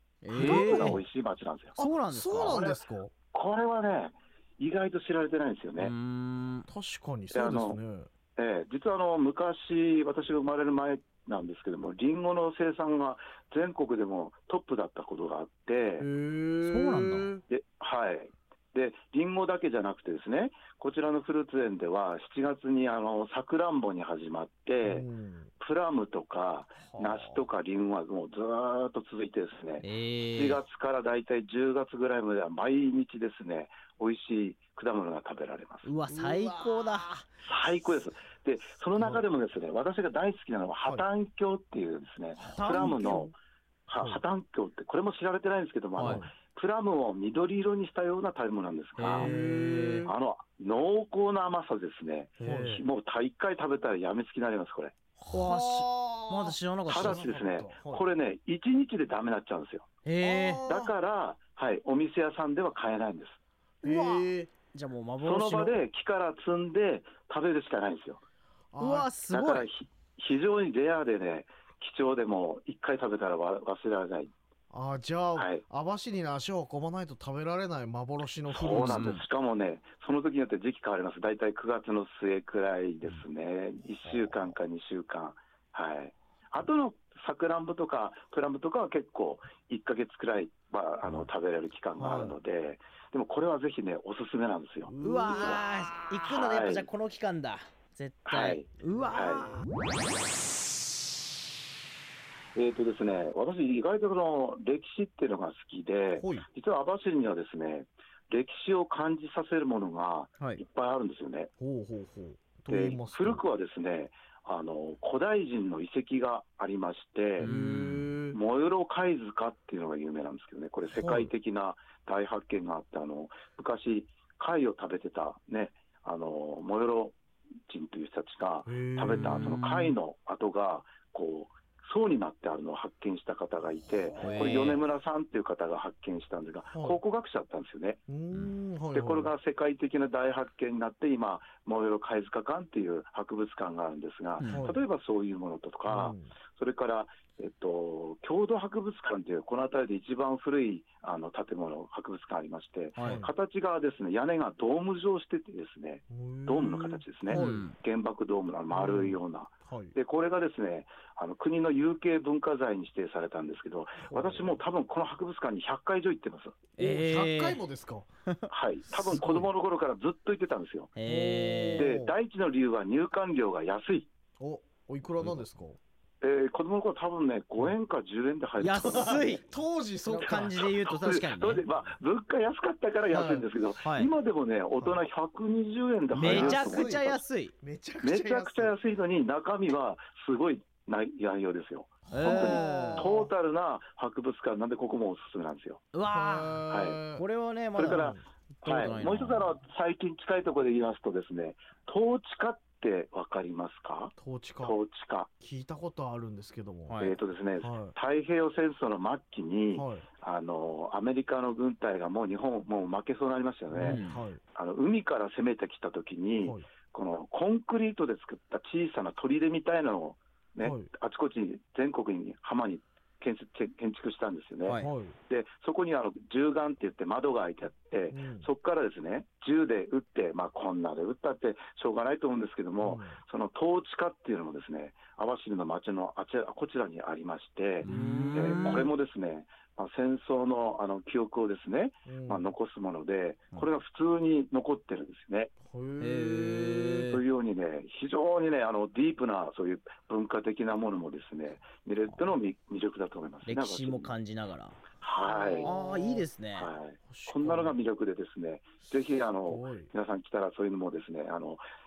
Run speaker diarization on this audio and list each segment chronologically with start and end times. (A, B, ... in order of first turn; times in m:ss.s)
0:00.2-0:01.0 A
0:00.3-0:01.8 B
0:00.3-0:01.0 C
0:01.8-0:02.7 A
0:01.8-0:03.1 C
0:02.4-0:05.9 B
0:05.8-0:06.7 A
0:06.7-0:08.1 C
0:07.3-0:07.8 B
0:08.4-0:16.1 B
0:16.0-0:17.4 C
0:16.6-0:17.3 A
0:17.5-0:25.0 B
0:24.8-0:25.5 C
0:25.6-0:35.9 B
0:26.8-0:27.4 C
0:29.8-0:30.6 A
0:35.8-0:37.2 A
0:36.0-0:37.2 C
0:37.4-0:43.3 B
0:39.0-0:39.2 C
0:42.4-0:43.2 A
0:42.4-0:43.3 C
0:43.9-0:49.4 B
0:43.9-0:44.2 C
0:46.0-0:46.2 A
0:46.0-0:46.3 C
0:49.0-0:50.1 A
0:49.1-0:50.1 C
0:50.0-0:54.9 B
0:52.4-0:52.6 A
0:52.4-0:52.8 C
0:55.2-0:57.3 A
0:55.3-0:58.0 C
0:56.9-0:59.8 B
1:00.0-1:00.6 A
1:00.2-1:00.9 C
1:00.7-1:03.4 B
1:03.8-1:04.5 C
1:03.8-1:05.8 A
1:05.2-1:08.2 B
1:08.7-1:09.2 C
1:08.8-1:09.7 A
1:09.2-1:14.3 B
1:14.7-1:19.2 C
1:15.4-1:15.6 B
1:18.5-1:36.9 B
1:18.7-1:19.2 A
1:32.0-1:32.4 C
1:34.8-1:35.7 C
1:35.0-1:39.7 A
1:38.2-1:39.6 B
1:42.6-1:51.5 B
1:46.2-1:46.4 C
1:51.6-1:53.4 C
1:52.7-1:57.5 B
1:57.4-1:58.2 A
1:57.4-1:58.4 C
1:58.3-2:07.2 B
2:00.9-2:01.3 C
2:07.7-2:18.0 B
2:08.6-2:09.5 C
2:09.1-2:10.0 A
2:14.1-2:14.5 C
2:14.2-2:14.8 A
2:16.7-2:17.0 C
2:18.1-2:19.3 C
2:18.9-2:46.6 B
2:24.4-2:24.7 A
2:24.5-2:24.8 C
2:25.9-2:26.3 C
2:33.0-2:33.2 A
2:33.0-2:33.3 C
2:36.1-2:37.6 C
2:37.3-2:37.8 A
2:38.7-2:39.9 C
2:44.0-2:44.6 C
2:46.8-2:47.6 A
2:46.8-2:48.1 C
2:48.5-2:50.9 B
2:48.9-2:49.5 C
2:50.9-2:51.9 A
2:51.0-2:52.1 C
2:51.8-2:54.1 B
2:54.4-2:55.8 C
2:55.2-2:55.4 A
2:56.2-2:59.3 B
2:58.6-2:59.4 A
2:58.9-3:00.7 C
3:00.1-3:01.6 A
3:00.2-3:07.0 B
3:03.1-3:03.4 C
3:03.8-3:04.1 A
3:06.1-3:07.5 A
3:06.2-3:08.7 C
3:08.0-3:15.8 B
3:12.1-3:13.2 A
3:12.1-3:13.3 C
3:15.9-3:19.6 A
3:16.1-3:17.2 C
3:16.7-3:17.0 B
3:17.7-3:25.3 B
3:17.8-3:18.2 C
3:24.2-3:24.7 C
3:25.4-3:27.1 C
3:26.9-3:27.2 A
3:27.0-3:34.0 B
3:27.6-3:27.9 C
3:29.7-3:30.0 C
3:33.7-3:34.4 C
3:33.8-3:34.2 A
3:34.5-4:05.5 B
3:40.6-3:40.9 C
3:44.6-3:44.9 A
3:44.7-3:45.2 C
3:48.1-3:48.5 C
3:52.8-3:53.2 C
3:57.8-3:58.9 A
3:57.9-3:58.8 C
4:02.0-4:02.5 C
4:05.6-4:07.1 C
4:06.0-4:07.2 A
4:07.1-4:14.1 B
4:13.4-4:14.8 A
4:15.0-4:15.7 B
4:15.1-4:16.3 C
4:15.6-4:16.7 A
4:16.5-4:21.6 B
4:17.1-4:17.8 C
4:19.4-4:19.9 C